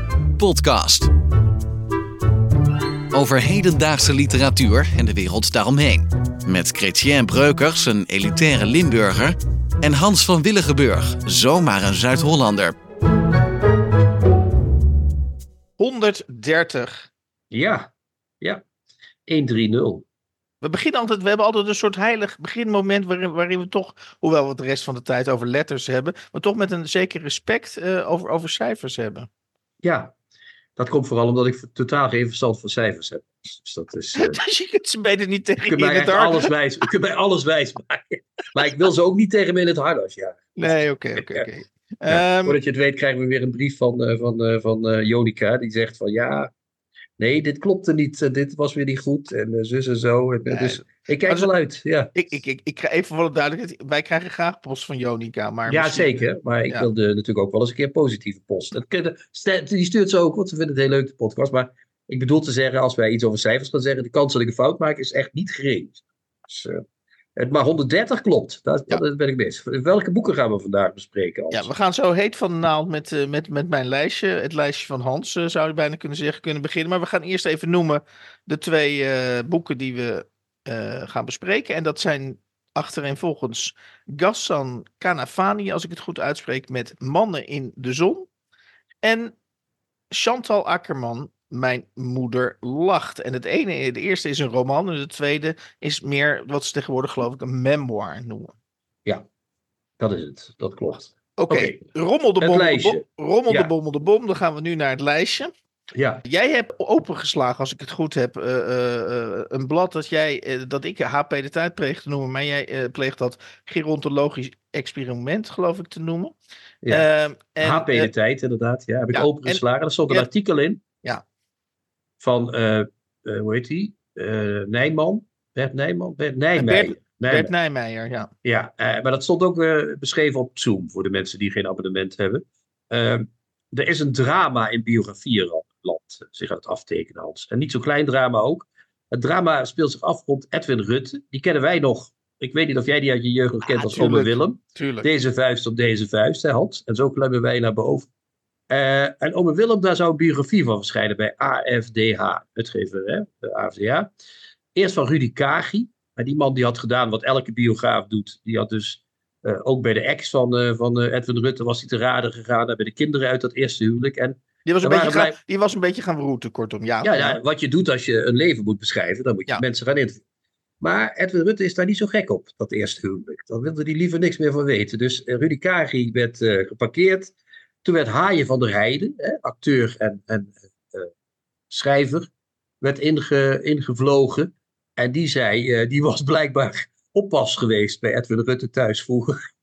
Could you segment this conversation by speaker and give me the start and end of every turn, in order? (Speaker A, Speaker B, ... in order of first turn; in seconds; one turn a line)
Speaker A: 0.4-1.1
Speaker A: 3.1-12.7
Speaker B: 15.8-17.1
Speaker C: 17.5-17.9
Speaker C: 19.3-20.0
Speaker B: 20.6-29.3
Speaker C: 29.8-30.1
Speaker C: 30.8-34.4
Speaker B: 34.2-36.5
Speaker C: 35.7-41.5
Speaker B: 40.5-42.6
Speaker C: 42.1-46.5
Speaker C: 47.2-52.1
Speaker B: 50.5-51.5
Speaker B: 52.1-56.1
Speaker C: 55.7-66.8
Speaker C: 67.3-71.7
Speaker B: 71.5-88.3
Speaker B: 89.0-89.3
Speaker B: 90.1-98.5
Speaker C: 100.0-101.8
Speaker B: 101.4-105.5
Speaker C: 102.4-103.7
Speaker C: 105.9-106.2
Speaker B: 106.2-116.3
Speaker B: 116.9-118.1
Speaker C: 117.6-120.8
Speaker B: 119.1-120.3
Speaker C: 122.2-127.5
Speaker B: 126.5-128.3
Speaker C: 128.4-148.1
Speaker B: 143.7-145.1
Speaker C: 148.7-154.1
Speaker C: 154.7-165.3
Speaker B: 164.7-167.4
Speaker C: 167.0-170.2
Speaker C: 170.8-181.1
Speaker C: 181.7-182.3
Speaker C: 182.8-189.3